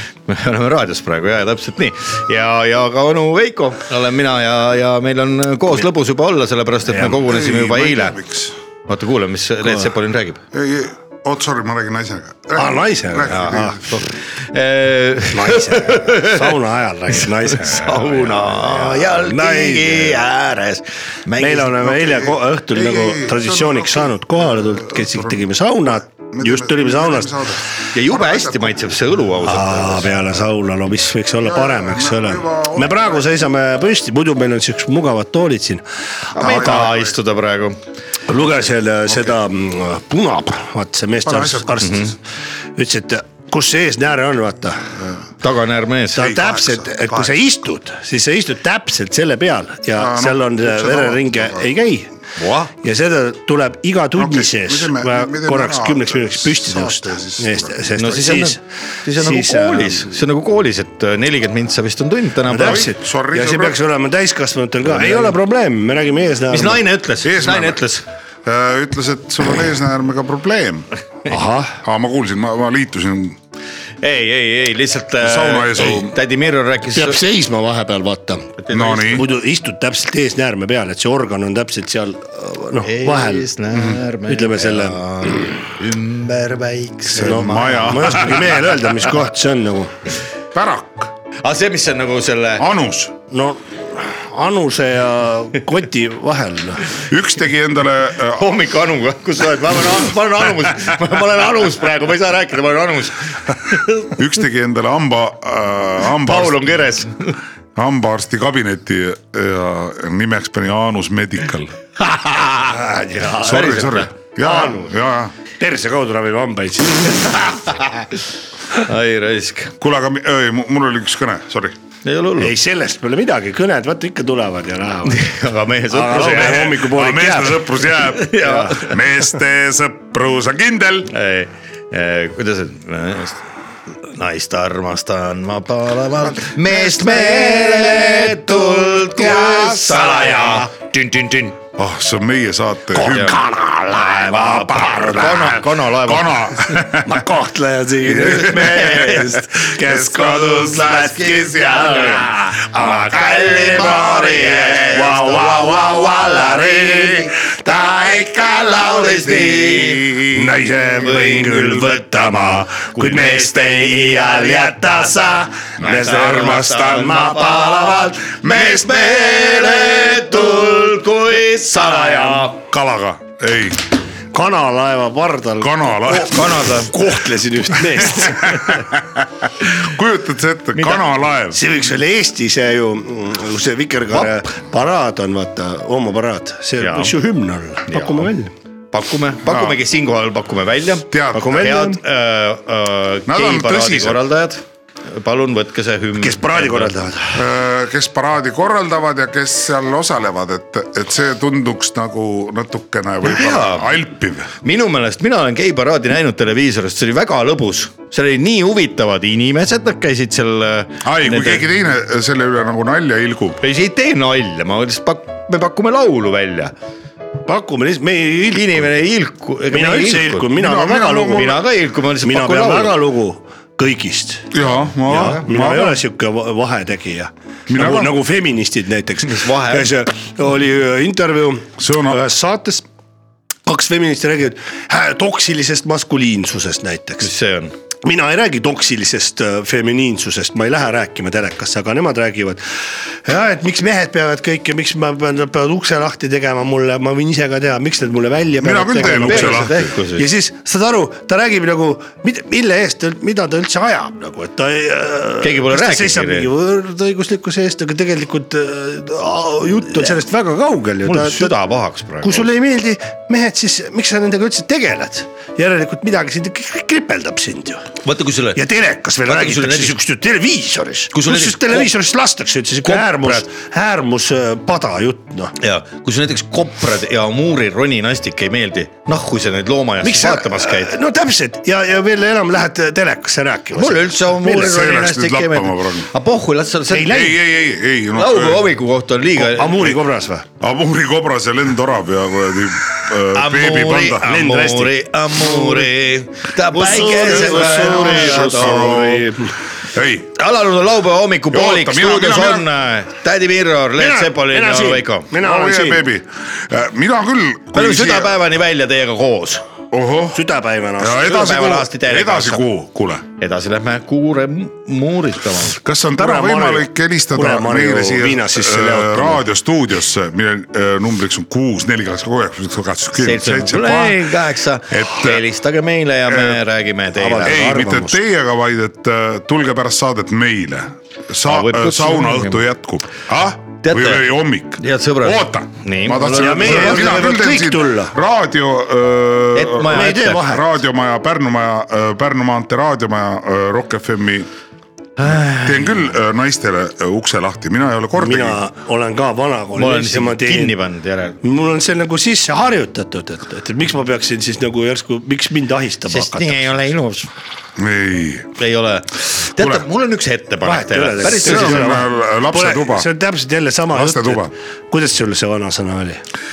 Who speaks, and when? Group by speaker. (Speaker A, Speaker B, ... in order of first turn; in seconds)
Speaker A: 0.3-8.2, 8.9-10.4, 13.4-16.5, 17.2-21.8, 27.9-30.1, 36.3-37.8, 41.8-42.1, 45.4-46.3, 52.4-52.7, 58.0-62.9, 66.5-68.0, 74.0-77.2, 78.6-79.2, 82.8-88.6, 91.4-92.7, 98.3-104.1, 106.2-107.4, 112.1-112.7, 113.5-114.1, 118.7-119.7, 122.0-122.5, 125.1-126.8, 128.1-129.0, 131.1-133.4, 134.1-141.4, 143.1-143.4, 144.1-146.6, 148.6-149.4, 151.4-155.8, 158.0-160.4, 161.0-162.1, 162.9-163.7, 165.8-167.5, 168.4-172.6, 176.1-176.9, 186.8-187.1, 187.9-188.3, 188.9-196.9, 203.2-203.9, 204.6-211.7, 213.6-216.7, 218.5-220.5, 221.4-223.0, 225.1-225.4, 229.2-229.9, 237.2-237.7, 249.0-250.3, 255.4-256.5, 261.1-262.5, 268.0-268.6, 269.3-270.0, 271.1-271.9, 272.8-273.4, 275.6-280.9, 283.7-287.3, 288.1-290.0, 293.3-299.2, 300.4-305.3, 307.7-309.6, 311.2-312.6, 313.4-315.8, 323.2-327.6, 331.5-332.6, 333.8-337.3, 339.6-340.4, 345.2-346.0, 349.8-351.4, 356.1-357.3, 358.6-362.0
Speaker B: 7.0-8.6, 10.5-14.0, 21.8-25.4, 26.3-28.9, 31.4-33.4, 36.4-37.2, 39.1-39.3, 41.2-42.0, 46.2-47.3, 50.0-51.7, 54.2-57.8, 62.6-63.8, 64.9-65.3, 67.2-67.8, 68.4-70.9, 71.8-73.4, 75.2-76.2, 78.7-79.3, 83.7-84.0, 87.1-88.6, 90.5-91.1, 92.6-93.2, 97.1-98.5, 104.2-106.6, 107.8-111.7, 113.4-115.3, 119.8-121.8, 126.4-131.1, 141.8-143.4, 145.0-145.5, 146.0-147.2, 148.1-148.8, 149.8-151.0, 166.1-167.2, 172.6-173.8, 175.6-176.6, 178.0-181.6, 189.4-189.8, 191.1-191.7, 193.3-194.2, 197.3-204.5, 211.0-213.6, 220.6-221.6, 224.5-226.0, 227.7-228.2, 231.8-232.2, 248.6-249.9, 284.6-286.1, 287.1-288.6, 290.6-294.3, 297.2-299.2, 299.9-300.3, 301.5-302.7, 305.4-308.4, 309.9-310.4, 311.0-313.2, 315.8-324.3, 324.9-325.4, 326.3-326.6, 327.4-344.5, 345.3-348.6, 357.8-358.6, 359.6-359.9, 361.3-363.1, 363.9-364.5
Speaker C: 12.6-13.9, 15.3-20.2, 21.4-27.6, 29.4-35.8, 36.4-36.9, 38.3-42.2, 42.8-45.0, 46.1-52.1, 52.8-60.2, 62.5-66.8, 71.3-71.8, 76.9-83.5, 84.3-85.6, 87.2-89.9, 93.3-96.9, 112.6-114.9, 115.6-117.8, 122.4-125.3, 125.9-127.8, 136.7-140.9, 142.9-145.6, 147.0-158.2, 160.3-170.8, 171.7-172.6, 174.3-178.8, 181.5-188.5, 191.3-192.0, 196.2-197.4, 217.5-218.8, 219.7-221.7, 222.2-224.5, 225.3-232.9, 233.7-237.3, 238.0-242.6, 243.2-261.5, 262.2-267.9, 268.6-275.5, 280.0-284.8, 286.9-287.4, 289.4-290.5, 294.3-295.9, 296.7-299.5, 304.0-306.0, 310.3-311.3, 316.2-319.4, 327.2-328.2, 336.2-338.1, 339.9-340.7, 348.2-350.8, 351.4-356.8, 360.6-366.2